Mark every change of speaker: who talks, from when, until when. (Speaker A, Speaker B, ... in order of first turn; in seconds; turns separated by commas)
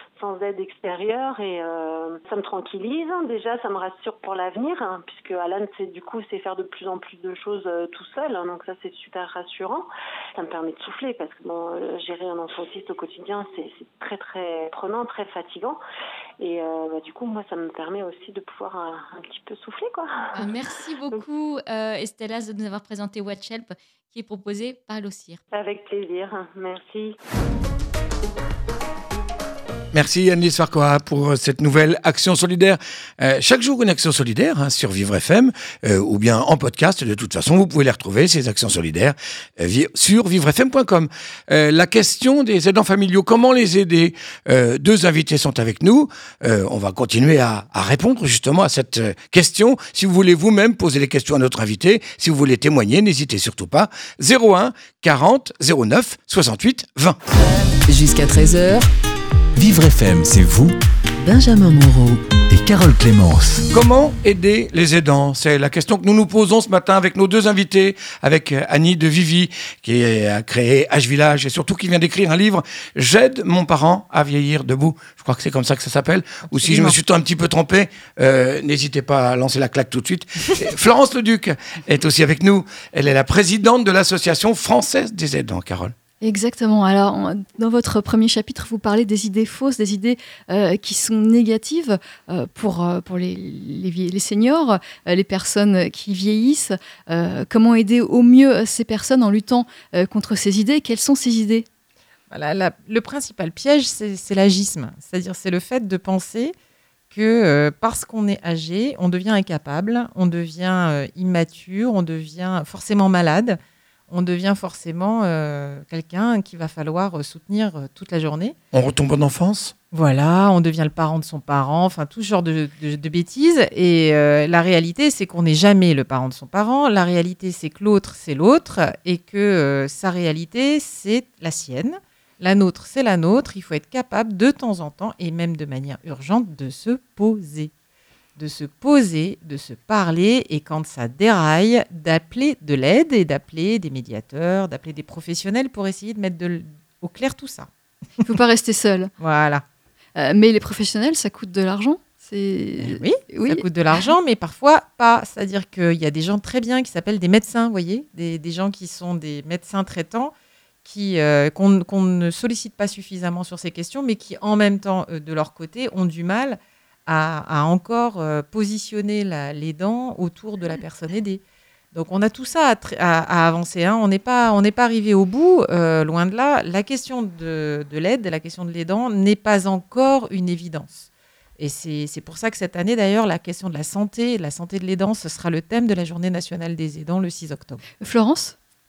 Speaker A: 0.2-15.8, Speaker A: 16.4-20.5, Speaker B: 20.4-25.4, Speaker A: 25.5-27.2, Speaker C: 29.9-57.2, Speaker D: 57.9-58.9, Speaker E: 59.6-60.8, Speaker D: 61.3-62.2, Speaker E: 62.5-63.7, Speaker C: 63.7-85.9, Speaker F: 76.5-77.0, Speaker G: 86.2-101.7, Speaker F: 102.3-106.5, Speaker F: 107.1-118.5, Speaker C: 118.7-119.7, Speaker F: 119.9-137.7, Speaker F: 138.4-147.7, Speaker G: 148.2-149.1, Speaker F: 149.2-149.6, Speaker G: 150.2-153.7, Speaker F: 152.8-160.3, Speaker F: 160.8-171.4, Speaker F: 171.9-187.8, Speaker G: 188.0-188.6